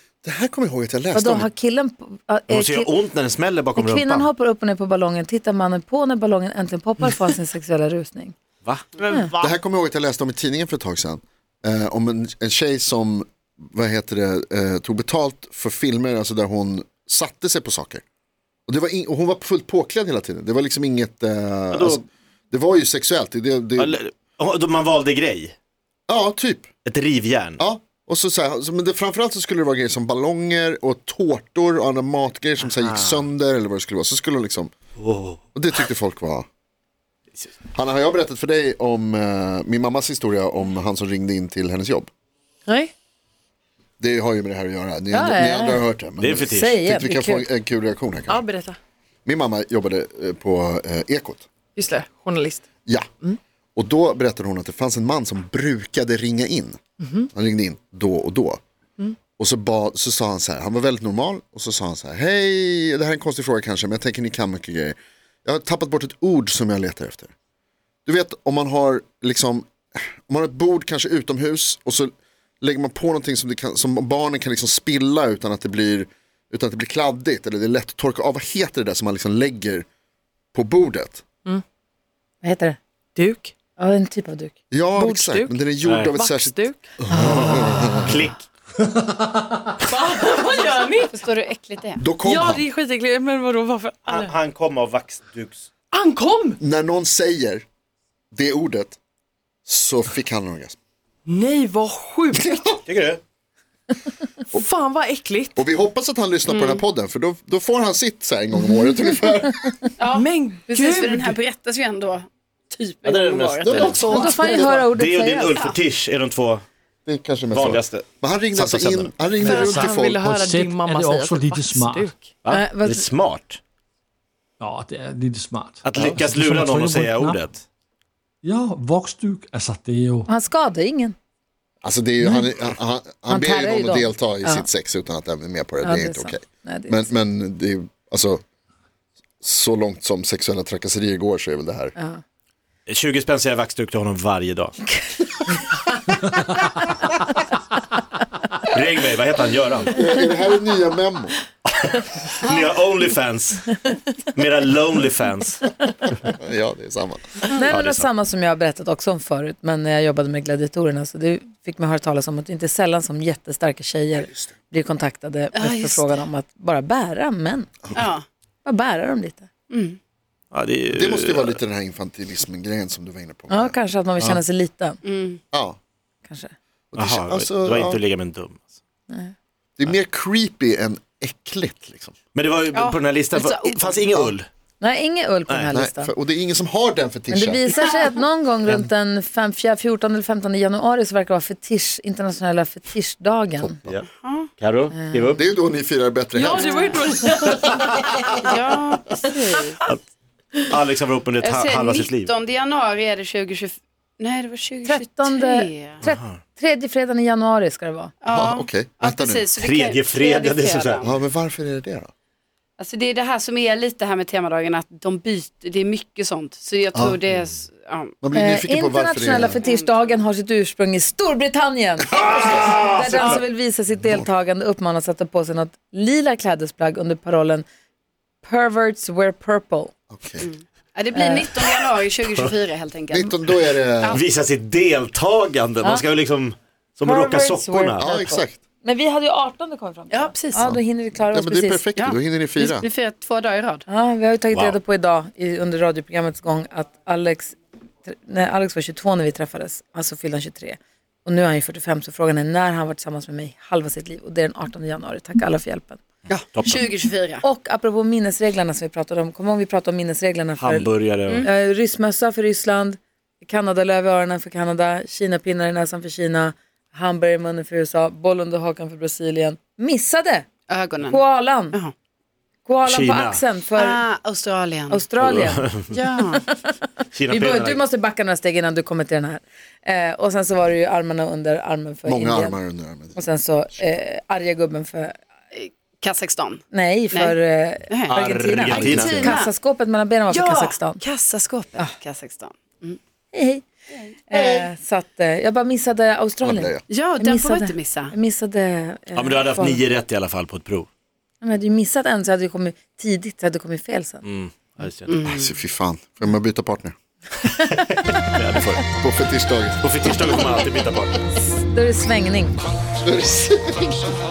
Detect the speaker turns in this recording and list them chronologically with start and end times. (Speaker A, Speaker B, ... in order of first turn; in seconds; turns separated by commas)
Speaker A: 0.2-1.5, Speaker B: 1.1-2.9, Speaker C: 2.5-4.3, Speaker B: 3.8-8.3, Speaker A: 9.4-18.0, Speaker A: 18.7-24.0, Speaker C: 21.7-22.0, Speaker C: 23.8-25.6, Speaker A: 26.1-26.7, Speaker C: 26.9-27.6, Speaker A: 27.6-34.7, Speaker C: 32.6-33.2, Speaker C: 35.0-35.4, Speaker A: 35.5-36.5, Speaker A: 37.7-42.1, Speaker D: 42.7-42.9, Speaker A: 44.0-48.5, Speaker B: 45.1-45.9, Speaker C: 46.2-46.8, Speaker B: 46.5-47.5, Speaker D: 48.3-48.8, Speaker A: 49.3-51.5, Speaker D: 51.8-52.6, Speaker A: 53.8-56.8, Speaker D: 57.0-57.3, Speaker A: 57.3-58.6, Speaker A: 59.4-67.3, Speaker A: 68.1-79.9, Speaker A: 80.5-81.2, Speaker B: 82.4-82.8, Speaker D: 83.2-83.5, Speaker B: 83.8-84.5, Speaker A: 84.7-88.2, Speaker D: 85.0-86.8, Speaker C: 85.8-86.2, Speaker B: 87.1-87.6, Speaker C: 87.2-88.5, Speaker D: 89.9-91.1, Speaker E: 91.1-92.0, Speaker A: 92.0-92.7, Speaker D: 92.2-94.3, Speaker C: 94.1-95.7, Speaker D: 95.9-96.6, Speaker A: 96.6-97.7, Speaker A: 98.3-99.0, Speaker A: 99.7-100.8, Speaker D: 101.3-102.5, Speaker A: 102.4-102.8, Speaker C: 102.9-103.2, Speaker D: 104.5-105.6, Speaker A: 105.6-109.8, Speaker E: 106.5-106.8, Speaker E: 110.0-114.8, Speaker D: 110.2-111.3, Speaker C: 113.0-116.6, Speaker A: 113.6-114.3, Speaker B: 114.1-115.6, Speaker A: 117.1-120.4, Speaker C: 117.5-119.9, Speaker F: 119.4-122.1, Speaker D: 119.8-122.3, Speaker C: 122.4-123.6, Speaker B: 122.5-123.1, Speaker F: 124.6-127.4, Speaker C: 125.8-127.6, Speaker F: 128.4-130.3, Speaker B: 130.3-131.2, Speaker A: 131.8-138.4, Speaker B: 133.3-134.7, Speaker B: 135.8-137.2, Speaker A: 139.4-141.9, Speaker B: 142.0-142.2, Speaker C: 142.9-144.9, Speaker C: 148.7-150.0, Speaker A: 149.9-151.4, Speaker C: 151.8-155.8, Speaker A: 156.2-157.4, Speaker B: 157.5-167.8, Speaker C: 157.7-158.1, Speaker E: 165.5-166.2, Speaker E: 167.9-168.2, Speaker B: 168.7-169.5, Speaker E: 169.7-170.0, Speaker C: 170.5-171.6, Speaker A: 170.9-174.4, Speaker B: 173.5-175.0, Speaker E: 175.1-175.4, Speaker A: 175.5-175.8, Speaker B: 176.3-176.5, Speaker A: 176.9-178.0, Speaker C: 176.9-178.7, Speaker A: 179.8-182.2, Speaker C: 182.3-184.5, Speaker E: 182.7-184.2, Speaker B: 184.8-186.1, Speaker A: 185.7-187.9, Speaker B: 187.3-193.8, Speaker A: 193.6-194.0, Speaker E: 194.1-194.5, Speaker C: 194.6-195.4, Speaker B: 194.9-195.3, Speaker A: 195.4-198.3, Speaker D: 196.3-197.7, Speaker E: 196.6-196.9, Speaker E: 198.4-199.8, Speaker C: 200.7-202.3, Speaker E: 201.4-206.0, Speaker B: 204.8-208.1, Speaker C: 206.0-206.3, Speaker E: 208.2-211.1, Speaker A: 208.3-209.5, Speaker C: 209.6-211.1, Speaker A: 211.0-212.1, Speaker E: 212.8-218.2, Speaker A: 218.2-219.6, Speaker B: 218.3-227.7, Speaker E: 219.6-220.2, Speaker A: 222.2-223.0, Speaker B: 228.4-229.9, Speaker A: 230.1-230.5, Speaker E: 230.4-234.2, Speaker B: 231.1-231.5, Speaker A: 233.1-234.2, Speaker C: 234.1-238.1, Speaker B: 237.0-241.9, Speaker A: 238.0-238.6, Speaker E: 240.1-240.7, Speaker A: 240.6-242.9, Speaker E: 242.0-243.8, Speaker B: 243.9-256.0, Speaker C: 244.5-244.8, Speaker E: 256.3-257.4, Speaker C: 256.5-256.9, Speaker B: 257.4-270.5, Speaker C: 260.6-261.5, Speaker E: 270.7-271.9, Speaker B: 271.1-271.8, Speaker B: 272.7-274.0, Speaker C: 272.9-273.4, Speaker E: 273.7-275.0, Speaker B: 274.9-276.8, Speaker C: 275.2-275.9, Speaker E: 275.9-276.4, Speaker C: 277.1-277.8, Speaker B: 277.3-282.6, Speaker A: 282.1-283.2, Speaker B: 283.1-285.2, Speaker E: 285.5-287.4, Speaker B: 286.7-291.0, Speaker E: 287.9-289.5, Speaker C: 288.1-289.2, Speaker A: 288.7-289.1, Speaker E: 290.3-293.0, Speaker B: 293.3-293.6, Speaker B: 294.3-299.8, Speaker A: 294.3-294.7, Speaker A: 296.4-296.8, Speaker E: 296.9-298.1, Speaker C: 299.1-300.9, Speaker B: 301.4-304.2, Speaker C: 304.2-305.2, Speaker E: 305.1-305.5, Speaker A: 305.2-306.9, Speaker C: 307.7-308.8, Speaker A: 309.0-310.6, Speaker C: 309.8-311.2, Speaker B: 311.4-312.6, Speaker A: 313.0-314.1